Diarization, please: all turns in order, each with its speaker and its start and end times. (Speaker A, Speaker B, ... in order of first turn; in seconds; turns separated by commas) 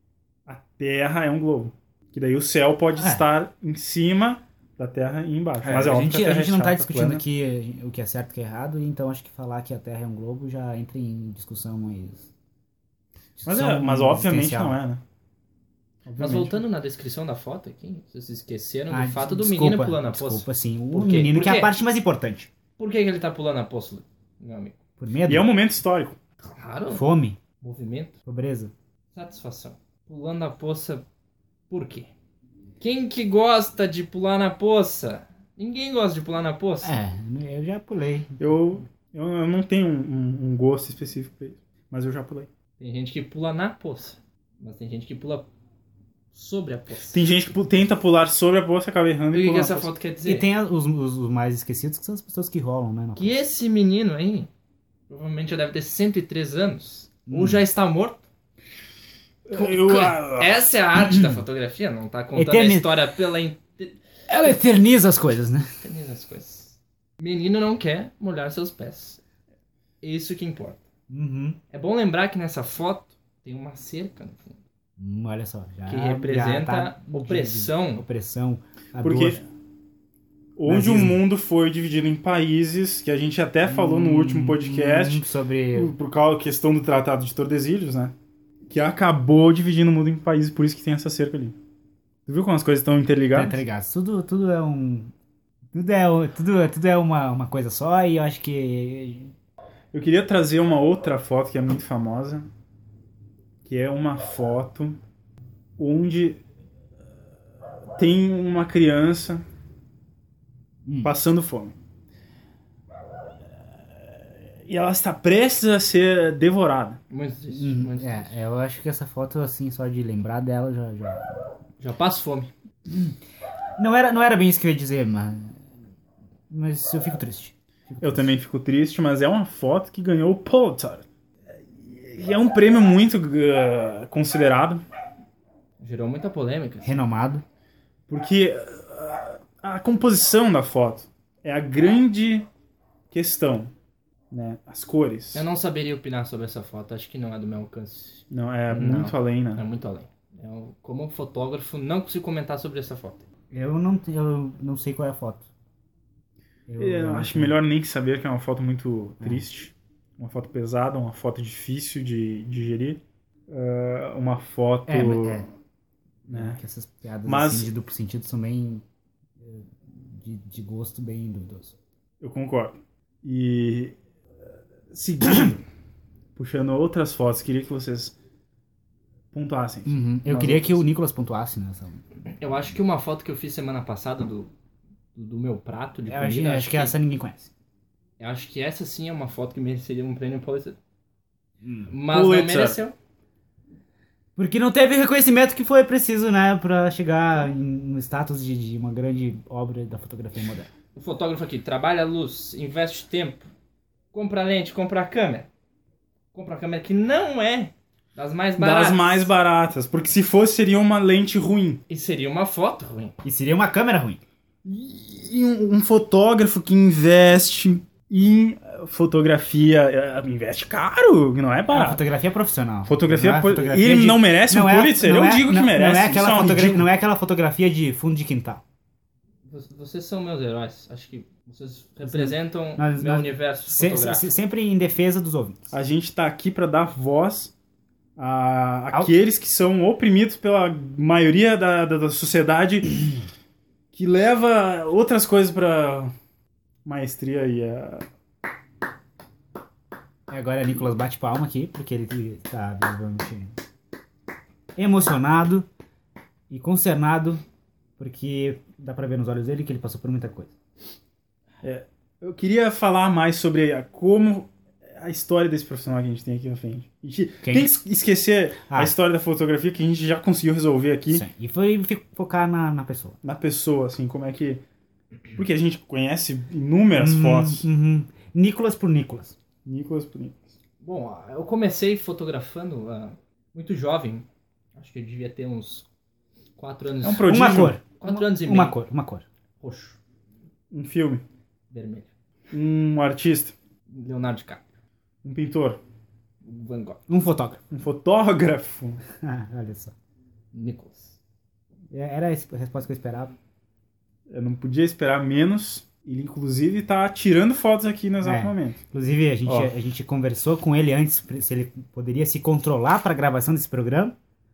Speaker A: 0.5-7.2, Speaker B: 3.0-3.3, Speaker B: 5.6-12.3, Speaker B: 13.4-14.8, Speaker A: 13.4-15.0, Speaker A: 16.1-16.6, Speaker C: 16.2-21.7, Speaker B: 18.9-22.5, Speaker C: 22.8-24.8, Speaker B: 25.0-25.5, Speaker A: 25.3-26.2, Speaker C: 26.4-27.1, Speaker B: 26.9-27.4, Speaker C: 27.6-28.2, Speaker B: 28.3-28.7, Speaker C: 29.1-31.1, Speaker C: 31.7-32.1, Speaker C: 32.8-37.0, Speaker B: 36.8-38.6, Speaker A: 38.4-42.5, Speaker C: 42.8-45.5, Speaker C: 46.3-47.2, Speaker A: 47.1-49.9, Speaker C: 49.3-50.5, Speaker B: 50.2-53.4, Speaker C: 53.2-54.5, Speaker C: 55.1-58.2, Speaker B: 57.3-57.7, Speaker A: 59.5-60.8, Speaker C: 59.5-64.0, Speaker B: 61.0-61.4, Speaker B: 62.4-62.9, Speaker B: 64.3-65.7, Speaker C: 65.8-69.2, Speaker C: 70.0-70.8, Speaker B: 71.1-71.6, Speaker C: 71.7-74.6, Speaker B: 75.0-79.4, Speaker C: 75.9-78.0, Speaker A: 79.0-79.4, Speaker A: 80.6-88.1, Speaker B: 80.7-81.2, Speaker B: 83.7-85.9, Speaker A: 88.7-91.6, Speaker A: 92.3-93.6, Speaker B: 93.3-95.1, Speaker B: 95.7-99.3, Speaker A: 99.9-102.5, Speaker A: 103.7-105.0, Speaker A: 105.8-106.4, Speaker A: 108.0-109.4, Speaker B: 110.8-111.1, Speaker A: 111.0-111.8, Speaker A: 114.7-117.0, Speaker C: 117.1-118.3, Speaker B: 117.5-121.5, Speaker C: 121.8-122.5, Speaker B: 122.9-123.2, Speaker B: 123.8-125.7, Speaker B: 126.5-128.3, Speaker A: 128.0-131.1, Speaker A: 131.8-134.8, Speaker C: 135.8-136.9, Speaker B: 136.8-137.4, Speaker A: 138.1-142.5, Speaker A: 143.1-143.7, Speaker A: 144.3-145.5, Speaker C: 145.3-153.3, Speaker A: 148.3-149.6, Speaker B: 153.5-155.5, Speaker B: 156.7-157.6, Speaker A: 156.8-165.5, Speaker B: 164.9-165.5, Speaker B: 166.3-168.8, Speaker A: 166.3-166.6, Speaker A: 167.3-167.7, Speaker B: 169.4-171.8, Speaker A: 172.2-174.0, Speaker A: 174.9-175.6, Speaker A: 176.4-178.2, Speaker A: 179.3-180.8, Speaker B: 179.9-182.0, Speaker C: 182.4-184.5, Speaker C: 185.1-186.9, Speaker B: 186.1-187.5, Speaker C: 188.2-190.8, Speaker B: 191.6-191.9, Speaker C: 191.9-192.9, Speaker A: 192.1-192.8, Speaker B: 194.4-200.7, Speaker C: 200.9-203.5, Speaker C: 204.1-205.5, Speaker C: 206.3-209.3, Speaker A: 208.6-211.8, Speaker C: 211.9-213.2, Speaker B: 213.2-214.2, Speaker A: 214.7-222.0, Speaker B: 221.7-228.6, Speaker A: 222.9-226.9, Speaker C: 229.5-234.3, Speaker B: 232.1-235.6, Speaker A: 235.7-237.5, Speaker A: 238.2-243.1, Speaker A: 243.9-246.1, Speaker A: 246.8-248.1, Speaker B: 250.3-253.6, Speaker B: 254.8-255.7, Speaker B: 256.5-257.4, Speaker B: 258.0-260.6, Speaker A: 261.6-271.2, Speaker B: 267.4-267.7, Speaker B: 268.7-268.9, Speaker B: 271.1-273.2, Speaker A: 273.2-274.6, Speaker A: 275.3-277.7, Speaker B: 277.0-279.4, Speaker A: 279.6-280.5, Speaker C: 280.8-285.9, Speaker C: 286.6-288.8, Speaker A: 287.0-287.8, Speaker B: 287.3-289.2, Speaker C: 289.6-290.0, Speaker A: 290.7-291.2, Speaker C: 291.7-292.1, Speaker A: 292.5-293.6, Speaker C: 293.9-294.6, Speaker A: 295.2-295.8, Speaker C: 296.4-297.0, Speaker B: 297.1-297.6, Speaker A: 297.7-299.0, Speaker B: 299.1-299.9, Speaker C: 300.5-301.2, Speaker B: 301.9-303.4, Speaker A: 304.3-308.8, Speaker B: 308.2-314.2, Speaker A: 309.4-309.7